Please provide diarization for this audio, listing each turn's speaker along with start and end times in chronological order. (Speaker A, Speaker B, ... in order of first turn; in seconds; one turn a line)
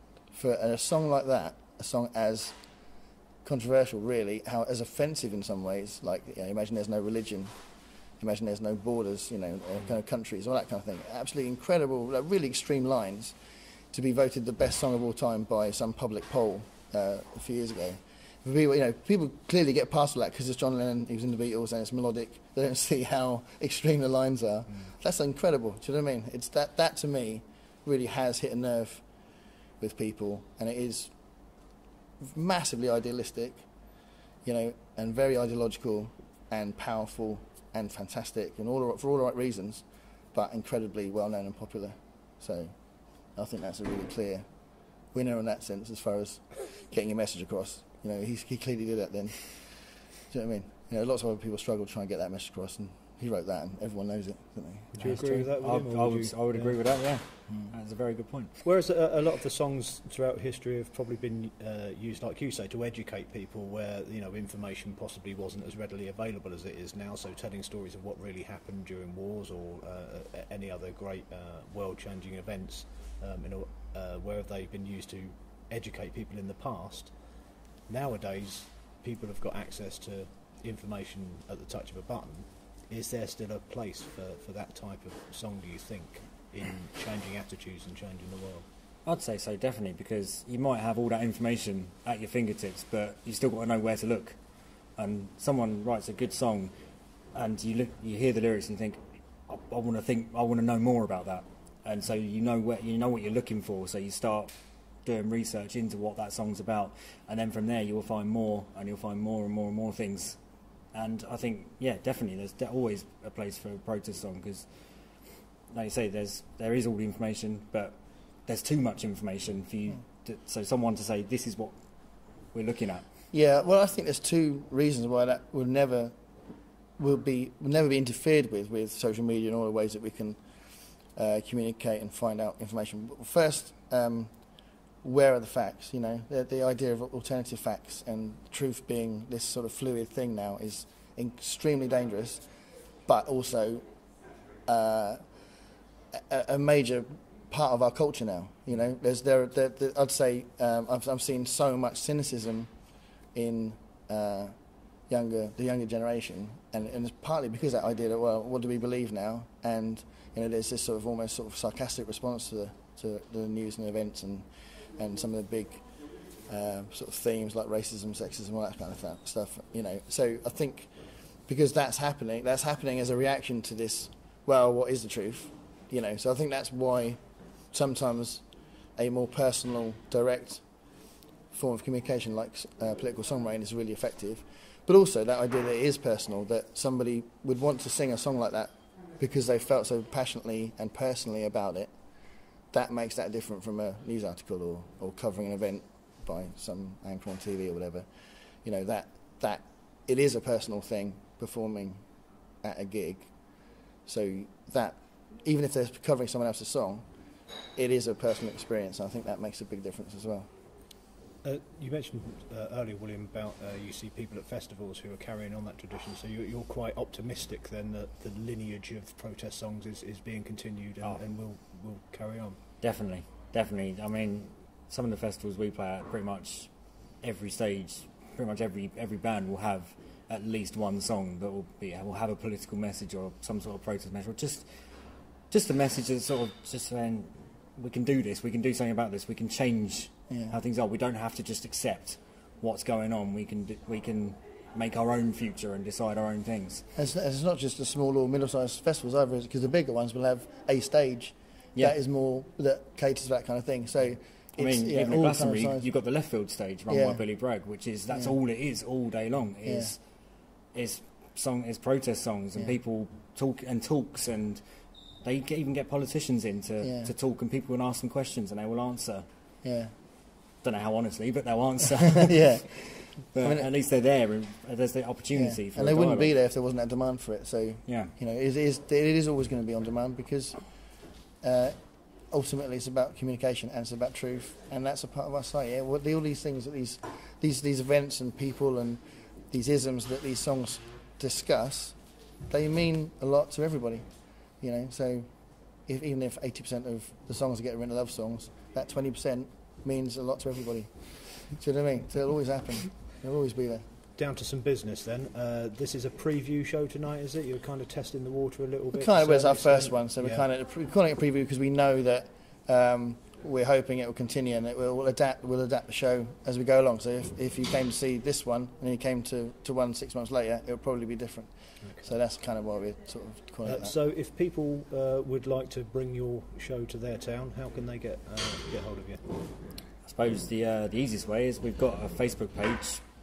Speaker A: 0.3-2.5
Speaker A: 3.4-7.5
Speaker A: 8.2-13.4
Speaker A: 13.9-29.0
Speaker A: 29.8-31.1
Speaker A: 32.2-33.6
Speaker A: 34.4-42.7
Speaker A: 43.4-44.5
Speaker A: 45.1-49.7
Speaker A: 50.3-55.0
Speaker B: 54.9-56.8
Speaker C: 55.0-58.6
Speaker B: 58.6-77.2
Speaker B: 77.9-88.7
Speaker C: 89.0-94.4
Speaker C: 95.0-96.7
Speaker C: 97.3-104.5
Speaker C: 105.0-110.4
Speaker C: 110.9-114.7
Speaker C: 115.7-121.7
Speaker C: 122.5-123.1
Speaker A: 123.3-126.1
Speaker A: 127.0-130.4
Speaker A: 131.1-134.3
Speaker A: 135.0-142.4
Speaker A: 143.1-143.9
Speaker A: 144.7-145.2
Speaker A: 146.1-152.7
Speaker A: 153.3-154.5
Speaker A: 155.1-164.5
Speaker A: 165.0-165.8
Speaker A: 166.5-170.9
Speaker A: 171.5-177.2
Speaker A: 177.7-178.4
Speaker A: 179.0-180.6
Speaker A: 181.5-191.9
Speaker A: 192.7-198.1
Speaker A: 198.6-202.0
Speaker A: 202.6-203.3
Speaker A: 204.1-207.1
Speaker A: 207.8-210.5
Speaker B: 211.4-222.6
Speaker C: 222.8-226.7
Speaker C: 227.2-234.7
Speaker C: 235.5-246.8
Speaker A: 240.3-240.6
Speaker A: 247.0-255.9
Speaker C: 254.6-260.0
Speaker A: 256.9-257.2
Speaker A: 259.6-259.9
Speaker C: 260.7-264.6
Speaker C: 265.2-269.3
Speaker A: 266.8-267.1
Speaker A: 269.6-269.9
Speaker C: 270.6-276.3
Speaker A: 272.2-273.7
Speaker A: 275.3-280.6
Speaker C: 277.9-278.1
Speaker A: 281.4-281.8
Speaker A: 282.3-292.0
Speaker A: 292.5-294.1
Speaker A: 294.6-295.3
Speaker A: 295.9-303.9
Speaker B: 304.2-310.5
Speaker A: 308.9-323.9
Speaker B: 321.8-322.1
Speaker B: 323.6-329.3
Speaker C: 330.0-333.0